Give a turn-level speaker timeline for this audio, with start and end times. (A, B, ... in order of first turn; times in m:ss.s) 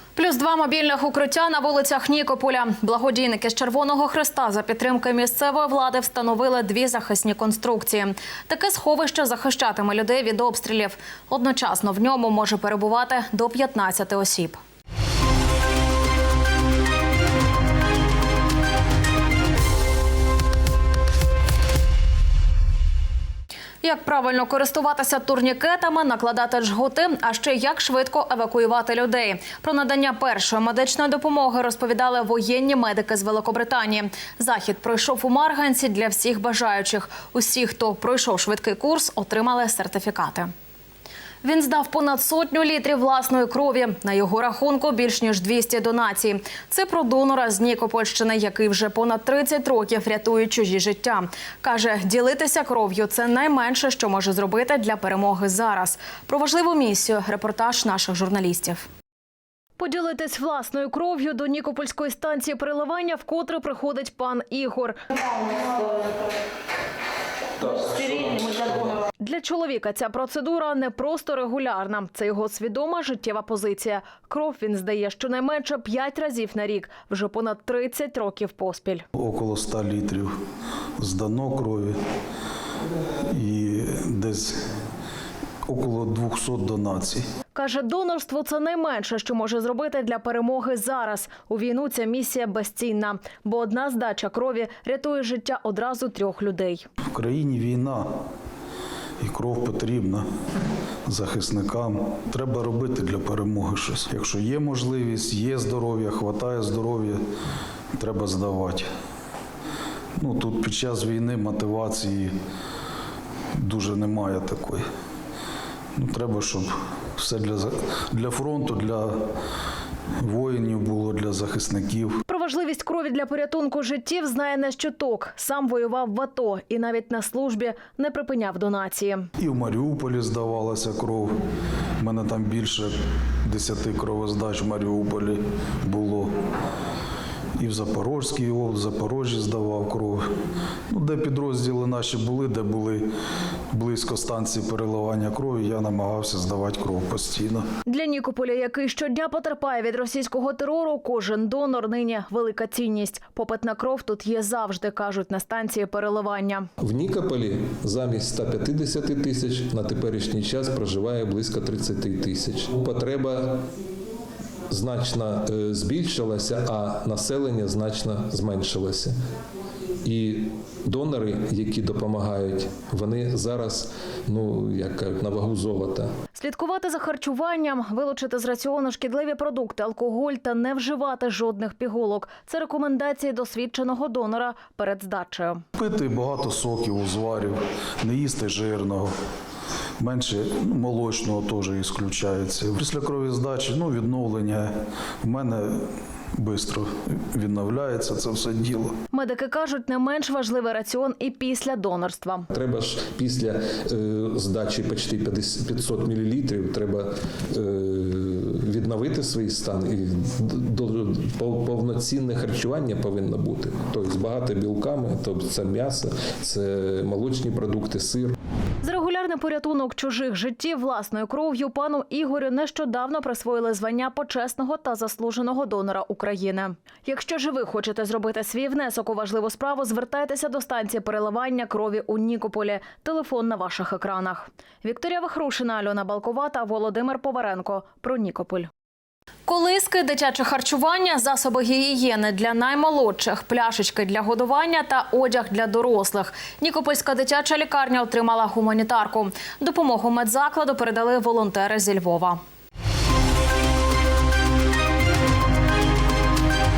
0:00.2-0:14.6 A
0:23.8-0:40.5 A
0:41.4-0:58.9 A
0:59.8-1:06.1 A
1:07.7-1:19.0 A
1:19.2-1:20.3 B
1:21.0-1:22.0 B
1:23.3-1:24.6 B
1:25.7-1:27.2 B
1:27.6-1:36.8 A
1:37.1-1:38.1 B
1:39.2-1:40.3 B
1:41.1-1:47.2 B
1:48.0-1:48.9 B
1:50.2-1:52.3 B
1:53.6-1:54.8 B
1:56.0-1:59.2 B
2:00.2-2:02.2 B
2:02.3-2:09.3 A
2:09.4-2:11.4 B
2:12.0-2:16.3 B
2:17.6-2:20.3 B
2:20.9-2:23.1 B
2:23.7-2:27.6 B
2:27.9-2:36.7 A
2:36.8-2:43.6 C
2:44.7-2:49.2 C
2:50.0-2:56.1 C
2:56.4-3:05.6 A
3:05.8-3:09.1 B
3:10.0-3:18.9 B
3:19.1-3:22.5 A
3:22.5-3:38.3 C
3:38.8-3:58.7 A
3:59.5-4:12.4 A